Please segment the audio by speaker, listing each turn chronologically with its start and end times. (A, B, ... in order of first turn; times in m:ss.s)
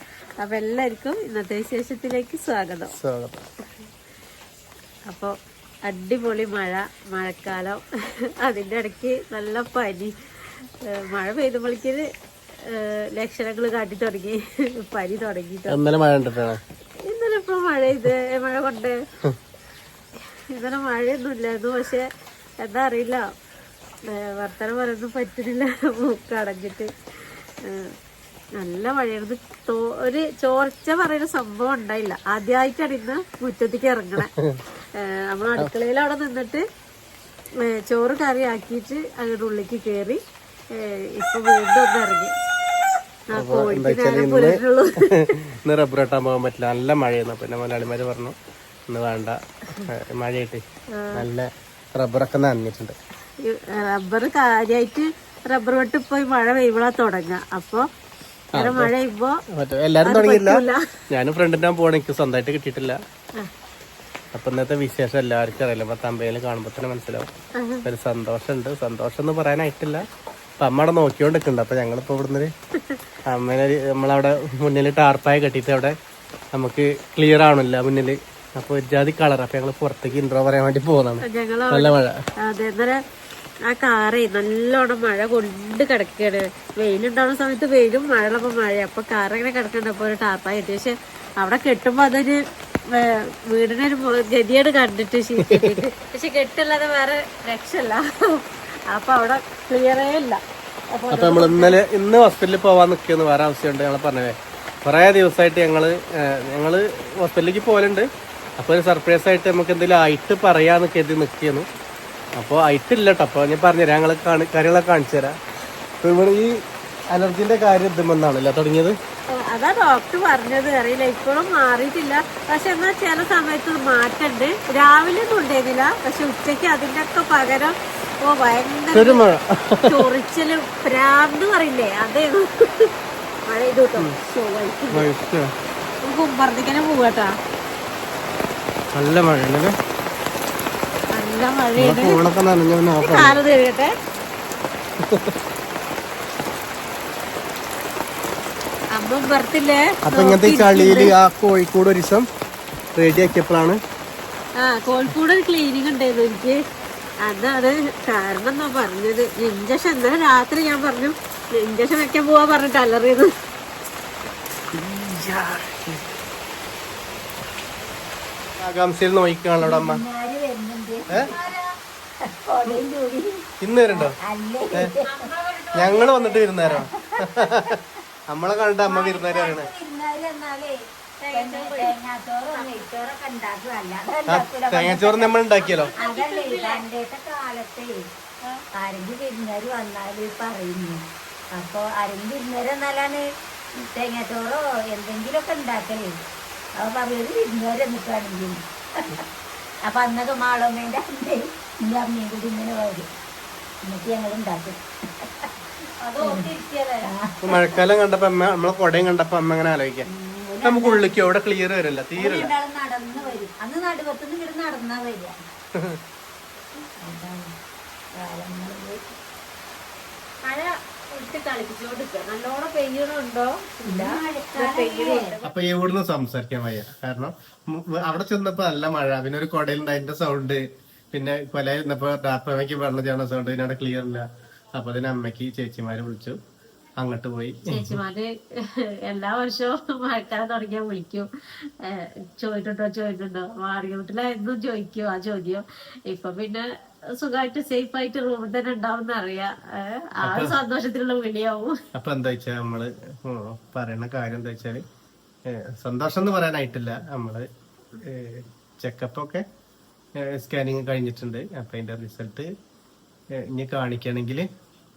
0:00.4-0:03.0 A
0:03.0-0:03.4 B
0:05.8-0:07.8 A
0:08.4-0:10.1 A
0:11.0-0:12.0 A
0:12.6-0:15.8 A
0:15.7-0:16.6 B
0:17.0-0:19.0 A
0:20.5-0:22.1 A
0:22.6-0:23.2 A
0:24.1-0:27.9 A
0:28.6-0:34.3 A
0:35.0-0:36.6 A
0:37.6-0:40.2 A
0:40.7-0:42.3 A
0:43.3-0:45.3 A
0:43.3-0:44.6 B
0:45.4-0:48.3 B
0:48.9-0:50.6 B
0:50.9-0:51.2 A
0:51.1-0:53.0 B
0:53.4-0:57.8 A
0:58.5-0:58.9 B
0:58.6-0:59.4 A
0:59.5-1:03.0 B
1:00.0-1:00.8 A
1:04.3-1:07.3 B
1:07.6-1:07.8 A
1:07.8-1:10.0 B
1:10.6-1:12.5 B
1:13.3-1:15.9 B
1:16.6-1:22.2 B
1:21.2-1:21.9 A
1:22.4-1:23.0 A
1:23.7-1:32.4 A
1:32.9-1:40.4 A
1:35.4-1:35.7 B
1:40.9-1:41.8 A
1:41.1-1:48.1 B
1:48.6-1:51.7 B
1:52.4-1:55.3 B
1:56.0-1:56.6 B
1:57.1-1:58.9 B
1:59.4-2:09.3 A
2:08.9-2:10.0 B
2:09.9-2:12.9 A
2:13.5-2:15.1 A
2:14.9-2:15.5 B
2:16.0-2:17.3 A
2:18.9-2:19.7 B
2:21.1-2:22.2 A
2:21.8-2:23.4 B
2:23.0-2:23.9 A
2:28.9-2:31.1 A
2:30.1-2:32.3 B
2:33.0-2:33.8 B
2:34.6-2:36.6 A
2:37.2-2:43.3 A
2:44.7-2:46.1 B
2:48.6-2:50.0 B
2:49.6-2:51.7 C
2:52.2-2:55.3 C
2:53.6-2:54.2 B
2:55.1-2:56.4 A
2:55.8-2:57.8 B
2:56.6-2:57.7 C
2:58.3-2:59.7 B
2:58.9-3:05.3 C
3:01.3-3:02.0 A
3:02.5-3:02.9 A
3:04.3-3:05.9 B
3:05.6-3:06.8 A
3:06.0-3:08.0 C
3:08.8-3:11.0 C
3:11.5-3:13.2 C
3:13.8-3:16.2 C
3:16.8-3:19.2 C
3:19.9-3:23.1 C
3:23.9-3:25.5 C
3:26.2-3:26.6 A
3:26.2-3:27.8 C
3:27.4-3:30.1 B
3:30.1-3:31.1 C
3:30.6-3:32.6 B
3:32.2-3:35.4 C
3:37.0-3:37.5 C
3:38.2-3:39.1 C
3:40.4-3:45.6 A
3:43.8-3:45.3 C
3:45.4-3:50.6 B
3:51.1-3:56.4 B
3:57.0-3:58.0 B
3:57.7-3:58.3 A
3:59.1-4:01.3 A
4:01.8-4:06.6 A
4:07.2-4:11.7 A
4:10.2-4:10.5 B
4:12.0-4:14.8 B
4:15.5-4:17.5 B
4:18.0-4:19.4 B
4:20.2-4:22.5 B
4:23.4-4:24.5 B